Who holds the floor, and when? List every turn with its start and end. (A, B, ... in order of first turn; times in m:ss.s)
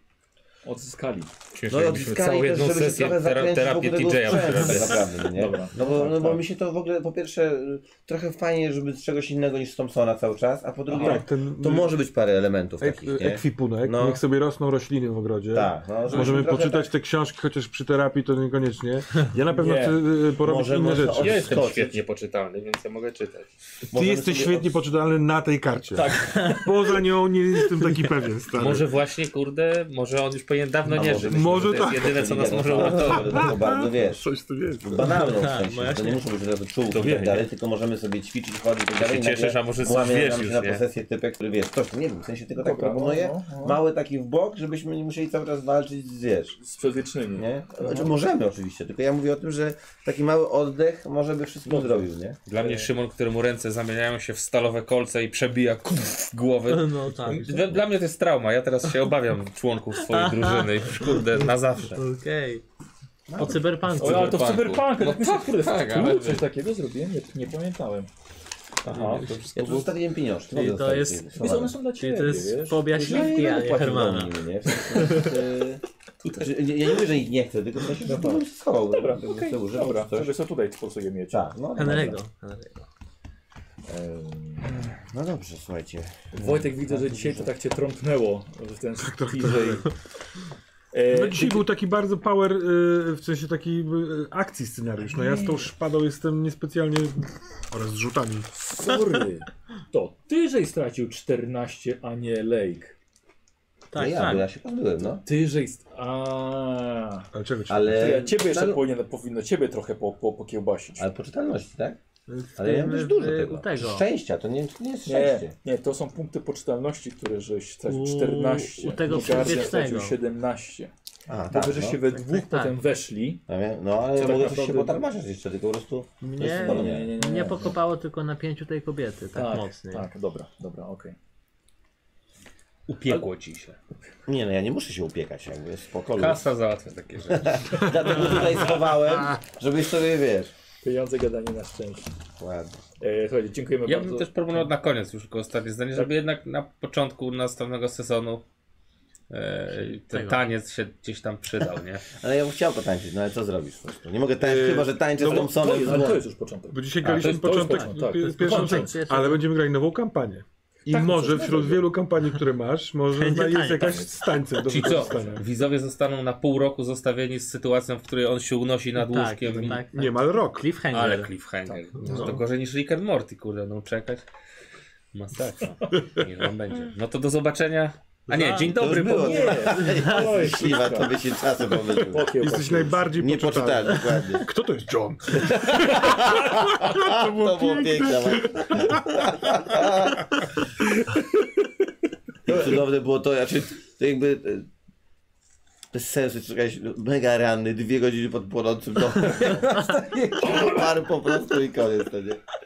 0:00.6-0:01.4 A
0:01.5-0:05.1 B
0:01.7-0:14.2 C
0:04.7-0:06.4 A
0:10.9-0:11.9 D
0:12.8-0:21.6 D
0:15.5-0:16.9 C
0:16.1-0:16.4 A
0:19.5-0:20.0 A
0:20.4-0:22.0 C
0:21.2-0:23.5 B
0:23.9-0:24.7 C
0:23.9-0:28.9 D
0:26.0-0:26.7 A
0:26.3-0:26.6 E
0:28.6-0:33.5 B
0:30.9-0:34.3 C
0:31.2-0:35.3 D
0:34.8-0:46.6 C
0:35.2-0:36.2 E
0:36.9-0:37.5 B
0:39.0-0:40.8 B
0:42.6-0:43.8 A
0:46.6-0:48.2 A
0:47.4-0:52.4 C
0:51.6-0:52.9 A
0:52.5-1:02.0 B
0:56.7-0:57.7 E
0:57.2-0:57.6 D
1:00.0-1:00.7 E
1:02.0-1:02.6 E
1:03.3-1:03.7 C
1:03.3-1:04.4 E
1:03.9-1:06.5 B
1:04.0-1:08.1 A
1:08.8-1:09.9 B
1:08.9-1:09.3 A
1:09.6-1:11.8 C
1:10.5-1:11.4 E
1:11.3-1:13.3 A
1:11.9-1:15.4 E
1:12.9-1:15.8 C
1:16.3-1:20.4 C
1:18.0-1:21.5 A
1:21.3-1:22.2 C
1:21.7-1:22.9 E
1:23.9-1:24.9 A
1:24.6-1:27.5 C
1:26.3-1:29.9 A
1:29.0-1:29.9 D
1:30.9-1:31.7 A
1:31.1-1:38.5 D
1:35.0-1:35.7 A
1:38.5-1:43.0 A
1:43.9-1:44.5 E
1:44.0-1:45.2 C
1:45.0-1:47.3 A
1:47.3-1:48.1 D
1:47.7-1:48.8 C
1:48.0-1:51.1 A
1:51.0-1:52.0 C
1:52.3-1:54.1 E
1:52.6-1:55.5 C
1:55.0-2:00.9 A
1:57.9-2:00.2 E
1:59.1-1:59.7 C
2:01.3-2:02.0 C
2:01.5-2:03.4 A
2:02.1-2:02.8 E
2:03.5-2:07.2 C
2:04.1-2:05.1 A
2:06.2-2:10.1 E
2:06.4-2:07.8 A
2:09.4-2:11.2 A
2:12.9-2:13.8 B
2:14.3-2:16.4 C
2:16.2-2:18.5 B
2:17.3-2:20.5 C
2:20.8-2:22.1 A
2:22.4-2:22.8 C
2:23.0-2:24.7 A
2:23.9-2:28.4 B
2:29.3-2:32.0 B
2:29.7-2:30.4 E
2:32.1-2:36.2 C
2:34.4-2:35.5 D
2:35.2-2:39.0 A
2:36.7-2:45.4 D
2:37.0-2:37.6 B
2:37.4-2:39.5 E
2:40.9-2:41.9 A
2:43.1-2:44.6 E
2:44.6-2:49.8 B
2:44.7-2:45.4 A
2:49.0-2:51.3 E
2:49.6-2:50.7 D
2:50.9-2:54.3 B
2:51.7-2:52.3 A
2:52.0-2:52.4 D
2:52.0-2:52.4 E
2:55.1-2:59.5 B
2:55.9-2:56.2 D
2:58.3-2:58.8 E
2:58.7-3:02.3 C
2:59.2-3:01.2 A
2:59.6-3:00.4 E
3:01.8-3:03.1 A
3:02.4-3:09.9 D
3:03.1-3:04.4 C
3:05.4-3:10.3 C
3:12.5-3:14.7 C
3:15.9-3:22.4 C